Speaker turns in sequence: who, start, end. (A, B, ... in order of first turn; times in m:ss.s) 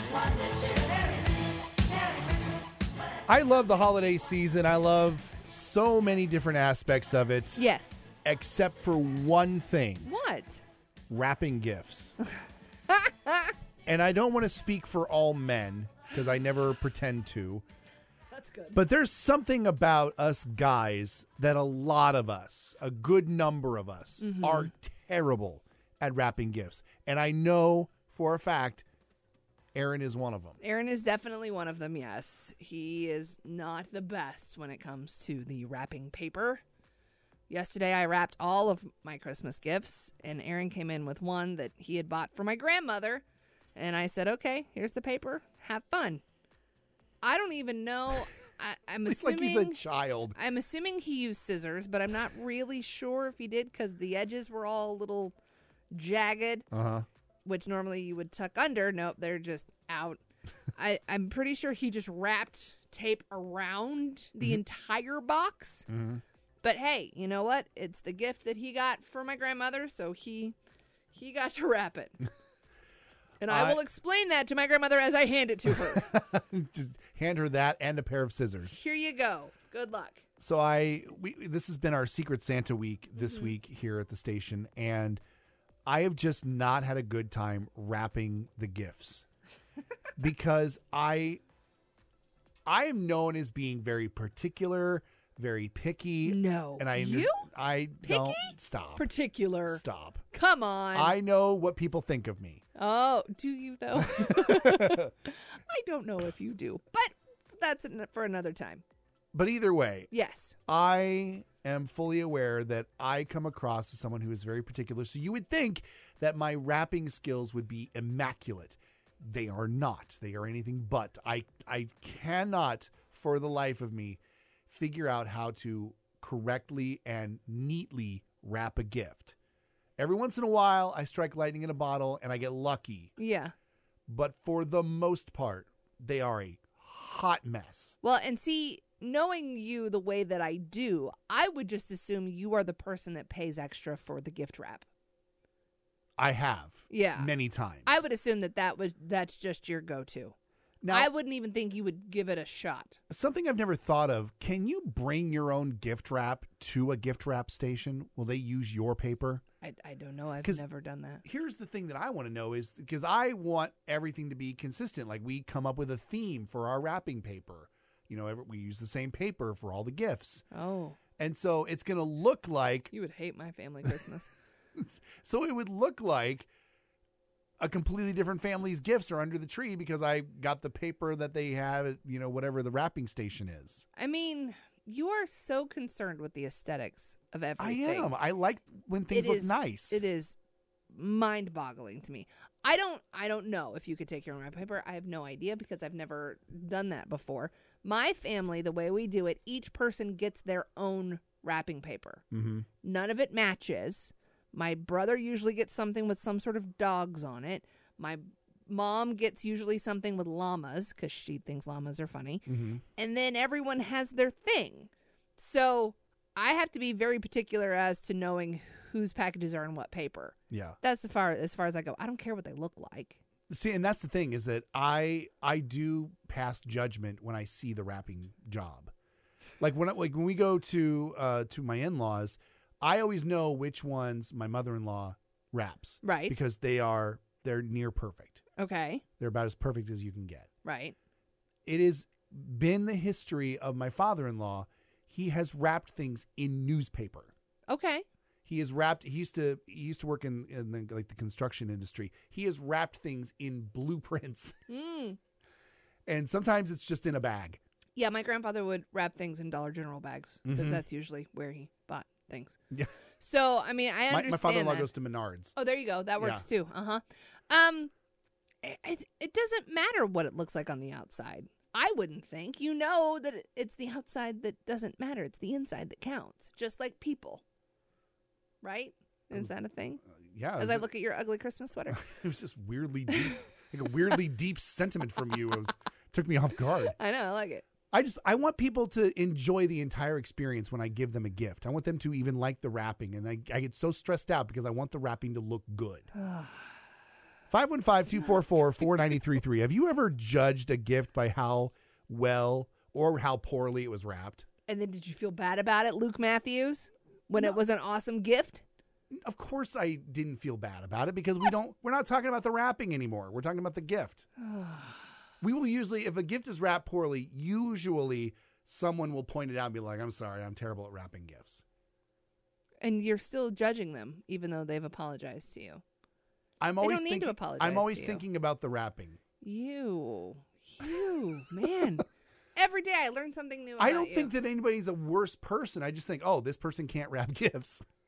0:03.3-0:07.7 A
0:07.6-0:08.0 B
0:08.2-0:10.1 A
0:10.0-0:10.6 B
0:11.1-0:12.1 A
0:12.9-0:13.5 B
0:13.8-0:17.6 A
0:18.3-0:18.8 B
0:18.7-0:28.8 A
0:24.2-0:24.7 B
0:29.7-0:30.6 A
0:30.6-0:36.6 B
0:37.5-0:43.2 B
0:43.8-0:46.2 B
0:47.2-0:49.8 B
0:49.0-0:50.4 A
0:50.3-0:55.3 B
0:55.9-0:56.7 B
0:56.7-0:57.0 A
0:57.4-1:00.2 B
1:00.7-1:05.9 B
1:05.9-1:06.2 A
1:06.6-1:10.6 B
1:11.1-1:12.2 B
1:13.4-1:16.1 B
1:13.5-1:13.8 A
1:15.7-1:18.8 A
1:18.7-1:20.2 B
1:20.4-1:25.2 A
1:23.2-1:23.5 B
1:25.8-1:29.2 A
1:30.2-1:31.4 A
1:32.6-1:39.1 A
1:36.2-1:37.5 B
1:38.0-1:41.1 B
1:39.7-1:40.2 A
1:40.9-1:42.6 A
1:42.7-1:48.8 B
1:44.1-1:45.1 A
1:49.3-1:50.1 A
1:50.1-1:50.6 B
1:50.7-2:09.3 A
2:10.0-2:13.1 A
2:13.2-2:13.5 B
2:14.1-2:18.0 A
2:18.0-2:24.8 B
2:26.2-2:28.0 A
2:26.9-2:27.3 B
2:27.8-2:30.3 B
2:30.8-2:31.1 A
2:30.9-2:33.0 B
2:33.1-2:39.4 A
2:39.6-2:41.2 B
2:41.2-2:50.4 A
2:50.5-2:51.0 B
2:51.2-2:52.9 A
2:52.9-2:54.3 B
2:54.8-2:56.5 A
2:57.6-3:03.8 A
3:04.0-3:08.1 B
3:07.6-3:10.0 A
3:09.1-3:10.3 B
3:10.9-3:22.2 B
3:22.3-3:22.7 A
3:22.8-3:32.4 B
3:32.4-3:32.8 A
3:33.0-3:43.2 B
3:40.5-3:40.8 A
3:43.5-3:48.9 A
3:49.6-3:58.4 A
3:56.0-3:56.4 B
3:58.6-3:59.0 B
3:59.2-4:00.5 A
4:00.6-4:01.0 B
4:01.6-4:07.3 A
4:07.7-4:08.0 B
4:08.4-4:14.6 A
4:14.7-4:15.2 B
4:16.1-4:17.6 A
4:18.0-4:22.6 B
4:20.4-4:20.8 A
4:23.2-4:24.9 B
4:24.1-4:25.5 A
4:25.6-4:27.9 B
4:26.2-4:26.4 A
4:28.6-4:37.4 B
4:38.6-4:40.0 B
4:40.0-4:40.8 A
4:40.6-4:42.0 B
4:41.9-4:47.0 A
4:46.9-4:47.6 B
4:47.9-4:56.1 A
4:56.2-4:56.6 B
4:57.5-5:04.4 A
5:04.7-5:08.6 B
5:09.1-5:14.2 A
5:14.4-5:15.1 B
5:15.4-5:21.6 A
5:22.8-5:25.8 B
5:26.6-5:29.2 A
5:26.8-5:28.2 B
5:29.4-5:34.3 B
5:33.8-5:37.8 A